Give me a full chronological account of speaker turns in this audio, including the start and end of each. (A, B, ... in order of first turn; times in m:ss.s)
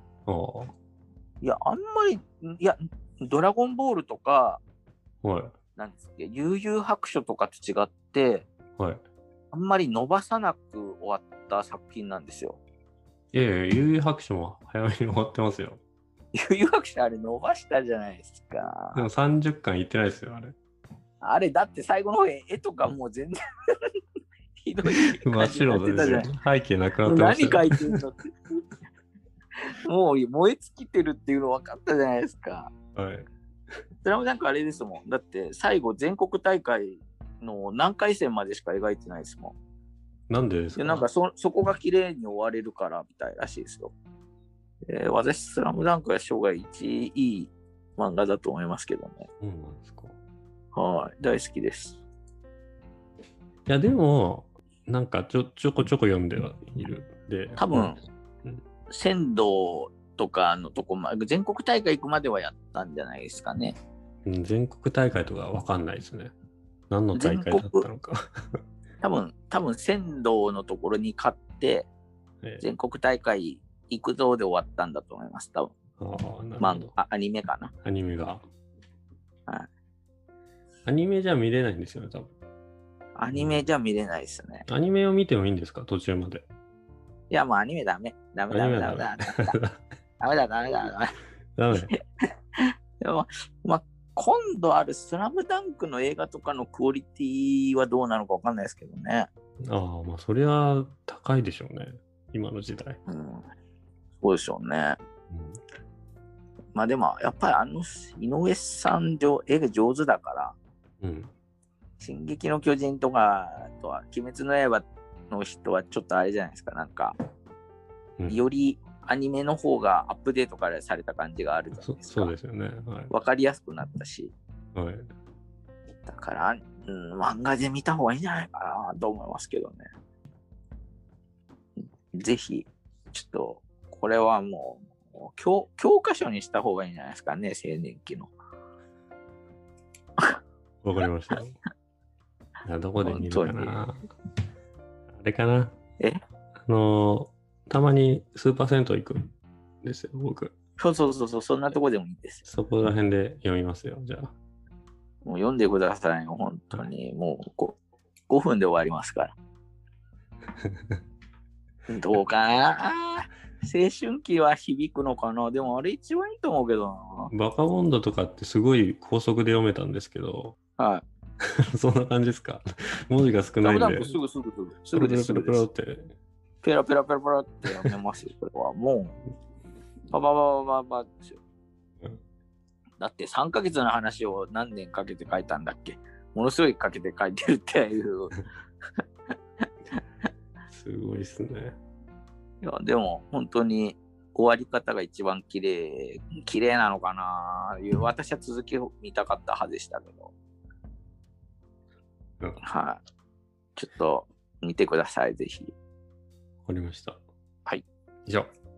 0:00.3-0:00.7 A
0:01.4-0:04.6 B
0:05.2-0:05.5 A
0:05.8-0:08.4 B
0:08.8-0:09.0 A
0:09.5-0:12.6 B
0:13.3-0:15.8 A
0:16.3-0:19.0 B
0:18.9-0:20.6 A
0:21.2-0:23.9 B
0:24.6-0:26.3 B
0:25.2-0:27.9 A
0:27.0-0:28.3 B
0:29.7-0:32.7 B
0:32.9-0:33.2 A
0:34.0-0:39.5 B
0:40.3-0:41.0 A
0:40.8-0:43.9 B
0:44.8-0:49.3 B
0:49.4-0:50.2 A
0:50.7-0:52.0 B
0:53.6-0:58.6 A
0:57.6-0:58.0 B
0:58.9-1:03.7 B
1:04.2-1:06.3 A
1:06.9-1:08.6 A
1:07.1-1:07.9 B
1:09.0-1:11.9 B
1:12.6-1:15.7 B
1:16.0-1:16.9 A
1:16.6-1:17.7 B
1:17.8-1:18.4 A
1:20.8-1:22.3 A
1:23.2-1:24.7 B
1:23.3-1:23.6 A
1:24.7-1:26.5 A
1:27.3-1:29.6 B
1:28.5-1:29.8 A
1:30.2-1:31.1 B
1:31.6-1:31.9 A
1:33.0-1:39.3 B
1:39.6-1:43.0 A
1:43.1-1:43.4 B
1:44.2-1:45.0 B
1:45.3-1:45.6 A
1:46.7-1:50.5 B
1:51.0-1:51.3 A
1:52.0-1:57.1 B
1:58.3-2:02.3 B
2:01.8-2:03.1 A
2:03.1-2:04.3 B
2:04.7-2:05.1 A
2:06.0-2:09.8 B
2:12.1-2:18.3 B
2:20.8-2:21.6 A
2:22.6-2:24.0 A
2:23.0-2:23.8 B
2:25.1-2:25.7 A
2:26.7-2:29.3 A
2:29.8-2:30.5 A
2:30.8-2:32.4 B
2:32.4-2:34.3 A
2:35.2-2:37.8 B
2:38.3-2:39.3 B
2:41.9-2:47.3 B
2:47.3-2:50.6 A
2:50.8-2:51.0 B
2:51.4-2:54.2 A
2:53.6-2:55.6 B
2:54.9-2:56.1 A
2:56.6-2:59.2 B
3:00.1-3:01.4 B
3:03.0-3:08.4 B
3:10.7-3:11.8 A
3:12.6-3:20.3 B
3:22.6-3:23.0 B
3:23.8-3:25.7 B
3:26.6-3:27.2 A